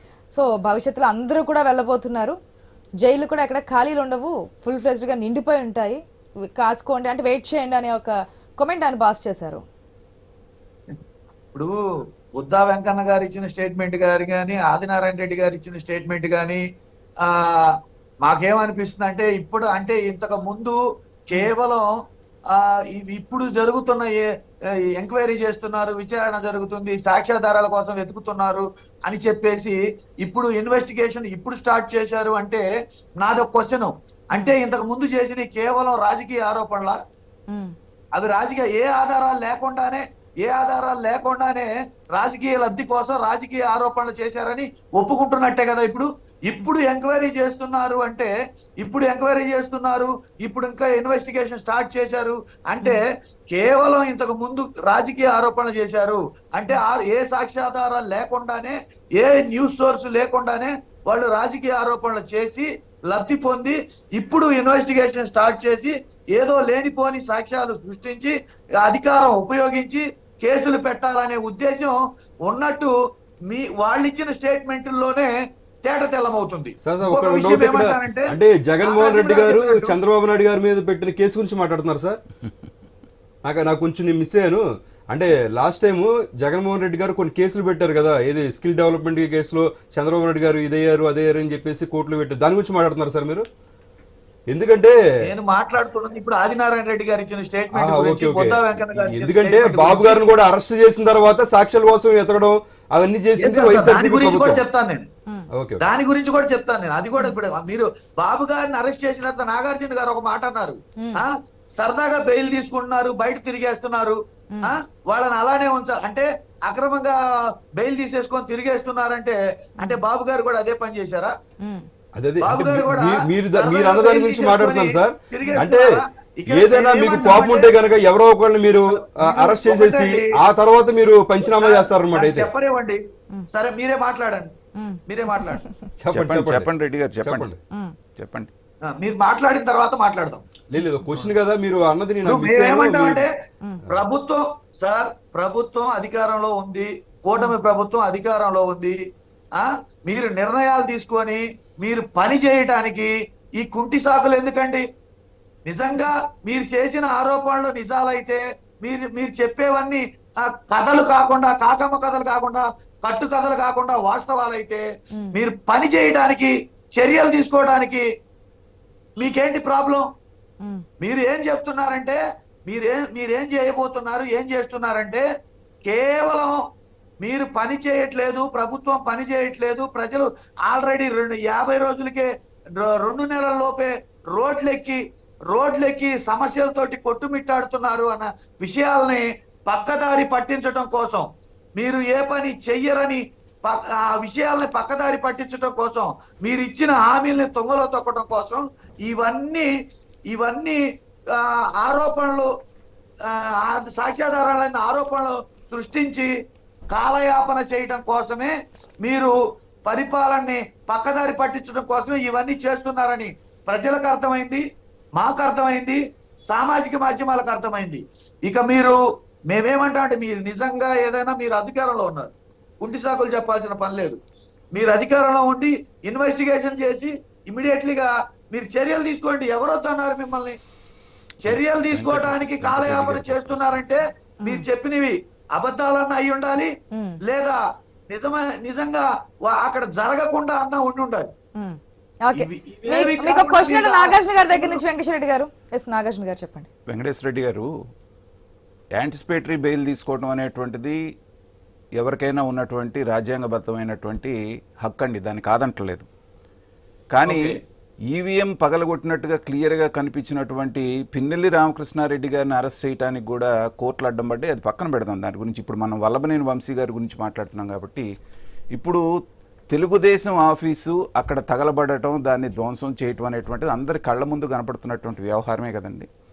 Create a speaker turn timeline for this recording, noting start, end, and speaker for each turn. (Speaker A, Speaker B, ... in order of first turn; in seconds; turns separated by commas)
Speaker A: 0.3-2.4, Speaker A: 3.0-9.6, Speaker B: 12.4-16.6, Speaker B: 17.2-17.6, Speaker B: 18.2-20.8, Speaker B: 21.3-21.9, Speaker B: 22.5-24.2, Speaker B: 25.0-32.6, Speaker B: 33.2-37.0, Speaker B: 38.1-72.9, Speaker B: 73.5-75.3, Speaker B: 75.8-80.0, Speaker C: 76.8-82.2, Speaker C: 83.4-93.5, Speaker C: 94.5-95.0, Speaker B: 95.3-100.2, Speaker C: 97.7-104.6, Speaker B: 103.4-105.1, Speaker B: 105.8-117.2, Speaker A: 111.0-111.2, Speaker B: 117.8-121.3, Speaker C: 122.2-125.9, Speaker B: 122.4-127.8, Speaker C: 126.5-132.5, Speaker B: 128.9-130.4, Speaker B: 131.4-134.5, Speaker A: 134.8-135.7, Speaker B: 135.1-135.6, Speaker C: 136.0-136.7, Speaker D: 136.1-137.5, Speaker C: 137.2-137.6, Speaker D: 138.2-138.5, Speaker B: 138.8-140.4, Speaker C: 140.7-143.2, Speaker B: 142.2-143.3, Speaker B: 143.9-149.0, Speaker B: 149.6-154.8, Speaker B: 155.7-168.1, Speaker B: 169.2-170.1, Speaker B: 171.0-175.2, Speaker B: 175.8-176.6, Speaker B: 177.2-185.0, Speaker B: 185.5-191.2, Speaker B: 191.8-199.7, Speaker B: 200.3-200.8, Speaker B: 201.4-202.5, Speaker B: 203.3-206.3, Speaker B: 206.9-209.3, Speaker B: 209.9-214.6, Speaker B: 215.2-219.0, Speaker B: 219.5-224.2, Speaker B: 224.7-230.6, Speaker B: 231.4-236.7, Speaker D: 231.5-233.8, Speaker A: 236.9-237.2, Speaker B: 237.3-241.3, Speaker A: 241.6-246.7, Speaker B: 242.3-244.8, Speaker D: 246.9-247.7, Speaker D: 248.9-251.0, Speaker D: 252.0-256.1, Speaker D: 257.1-257.6, Speaker B: 257.3-257.6, Speaker D: 258.1-268.1, Speaker D: 268.7-269.1, Speaker D: 269.7-276.1